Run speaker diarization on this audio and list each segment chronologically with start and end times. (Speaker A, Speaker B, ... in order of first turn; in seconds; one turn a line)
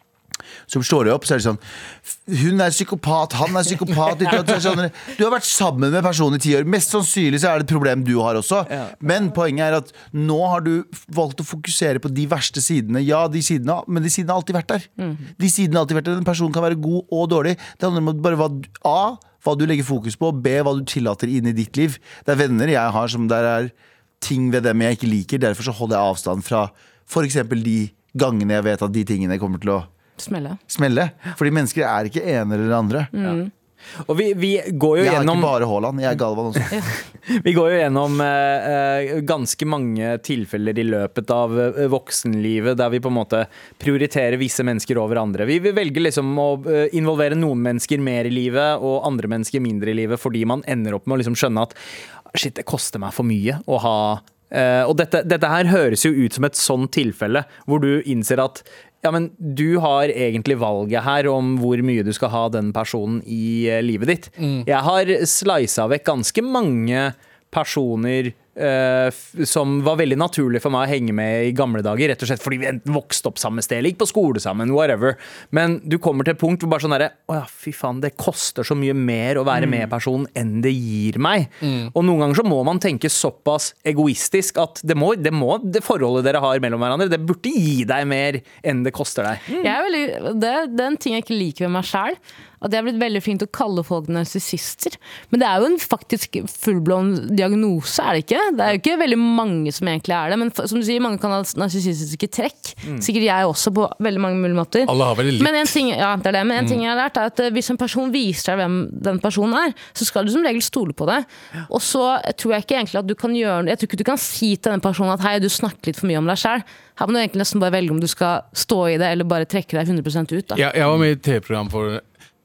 Speaker A: 0.7-29.9
Speaker B: 30.2-30.6
Speaker A: 30.7-33.1
Speaker B: 33.1-33.5
Speaker C: 34.1-35.5
Speaker A: 35.0-36.7
Speaker C: 37.3-51.8
Speaker C: 52.3-89.7
Speaker D: 64.4-64.7
Speaker D: 81.6-81.9
Speaker B: 89.6-120.6
Speaker D: 104.9-105.7
Speaker D: 120.5-122.0